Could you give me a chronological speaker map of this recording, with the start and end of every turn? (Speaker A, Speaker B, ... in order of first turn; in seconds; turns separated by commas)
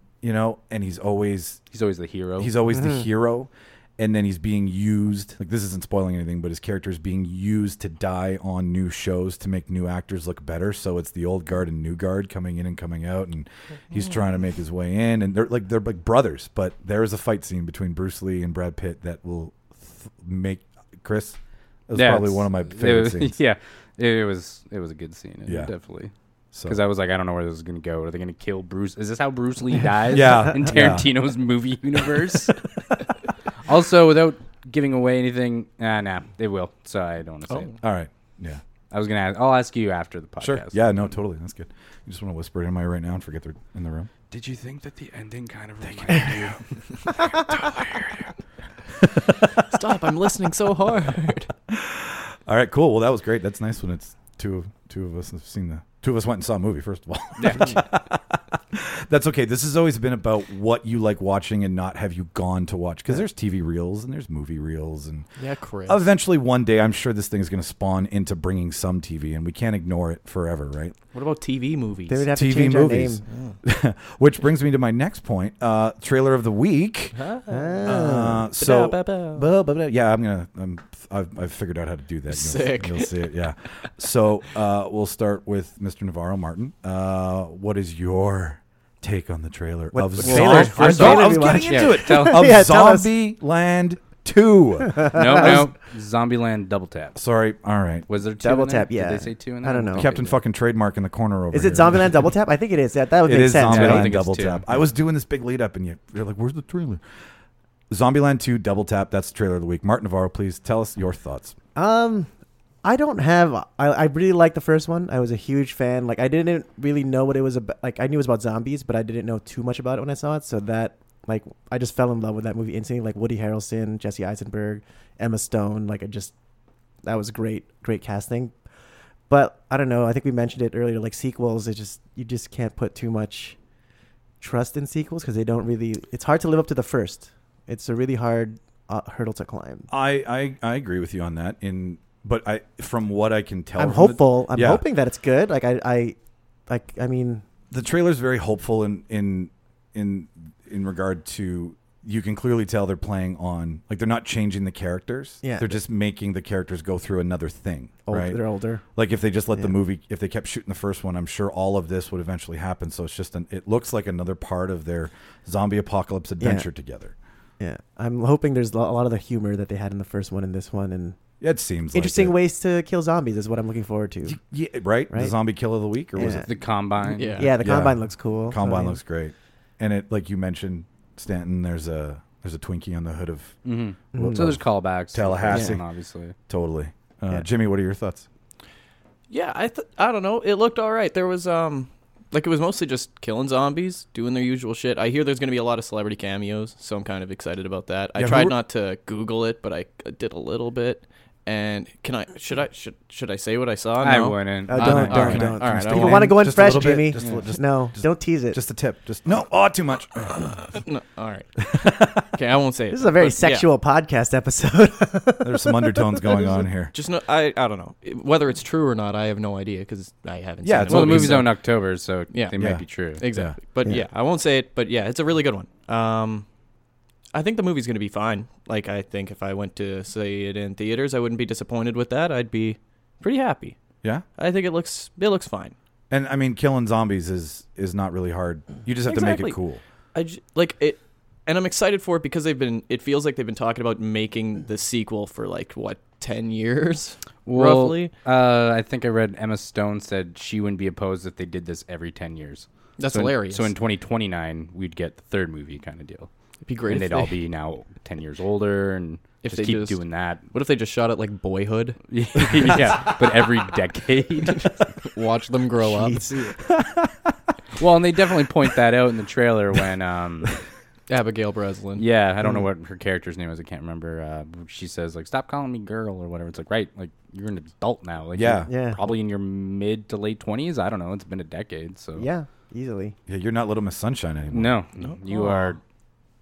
Speaker A: 0.2-1.6, Speaker B: 1.7-2.5, Speaker A: 2.4-23.4, Speaker C: 2.8-3.0, Speaker B: 21.9-26.1, Speaker A: 25.5-25.7, Speaker B: 26.7-32.7, Speaker A: 30.1-31.1, Speaker B: 33.6-37.7, Speaker D: 37.5-37.8, Speaker A: 37.8-38.6, Speaker B: 38.9-40.8, Speaker A: 40.4-44.1, Speaker B: 44.3-48.3, Speaker A: 45.8-46.6, Speaker D: 49.6-51.5, Speaker A: 51.7-65.3, Speaker B: 57.4-57.8, Speaker D: 65.4-66.0, Speaker A: 65.9-71.0, Speaker D: 71.1-72.3, Speaker C: 72.1-73.2, Speaker A: 72.3-77.2, Speaker D: 73.3-73.6, Speaker D: 77.2-79.5, Speaker C: 77.5-78.4, Speaker A: 77.8-95.6, Speaker D: 82.3-83.3, Speaker C: 89.9-93.1, Speaker D: 90.2-91.2, Speaker B: 90.2-92.7, Speaker C: 94.8-95.7, Speaker B: 95.1-97.2, Speaker A: 97.2-98.1, Speaker B: 98.1-100.4, Speaker C: 98.4-100.1, Speaker A: 100.0-102.2, Speaker C: 101.5-104.1, Speaker A: 103.2-107.0, Speaker B: 103.7-104.6, Speaker A: 107.9-111.5, Speaker C: 111.8-112.3, Speaker C: 112.8-126.3, Speaker C: 127.0-128.5, Speaker C: 129.3-133.6, Speaker C: 134.4-139.9, Speaker A: 139.9-144.8, Speaker C: 143.8-146.2, Speaker C: 146.7-147.4, Speaker A: 147.7-158.4, Speaker C: 155.4-155.8, Speaker C: 158.1-158.8, Speaker A: 158.9-167.1, Speaker C: 166.4-166.7, Speaker C: 167.6-171.2, Speaker A: 171.4-172.4, Speaker C: 171.9-174.4, Speaker A: 174.3-176.4, Speaker C: 175.1-175.3, Speaker C: 176.2-176.5, Speaker B: 176.2-177.5, Speaker D: 177.1-177.5, Speaker C: 177.3-179.0, Speaker A: 177.5-183.6, Speaker B: 183.7-186.3, Speaker C: 184.1-184.6, Speaker A: 184.1-185.8, Speaker C: 185.5-185.8, Speaker A: 186.5-188.3, Speaker D: 189.3-206.4, Speaker A: 198.2-198.6, Speaker B: 204.0-205.4, Speaker C: 204.7-208.6, Speaker A: 204.8-210.7, Speaker B: 207.2-207.4, Speaker D: 210.7-213.7, Speaker A: 211.8-212.2, Speaker C: 212.9-216.5, Speaker A: 215.4-216.9, Speaker D: 216.9-221.5, Speaker A: 220.6-221.5, Speaker B: 220.9-223.2, Speaker A: 222.6-223.6, Speaker D: 223.2-226.4, Speaker D: 227.3-233.8, Speaker D: 234.4-235.8, Speaker A: 236.1-239.8, Speaker D: 239.1-239.6, Speaker D: 240.1-248.1, Speaker B: 247.5-256.3, Speaker D: 253.0-253.7, Speaker D: 256.6-257.3, Speaker B: 256.9-260.4, Speaker D: 259.4-260.0, Speaker D: 260.5-262.0, Speaker B: 262.1-264.8, Speaker D: 264.7-266.3, Speaker C: 265.8-266.6, Speaker B: 267.8-270.6, Speaker D: 271.1-272.1, Speaker B: 272.0-282.3, Speaker A: 278.4-278.7, Speaker C: 278.7-279.0, Speaker C: 282.2-283.2, Speaker A: 283.3-284.8, Speaker B: 284.5-285.8, Speaker D: 285.0-285.7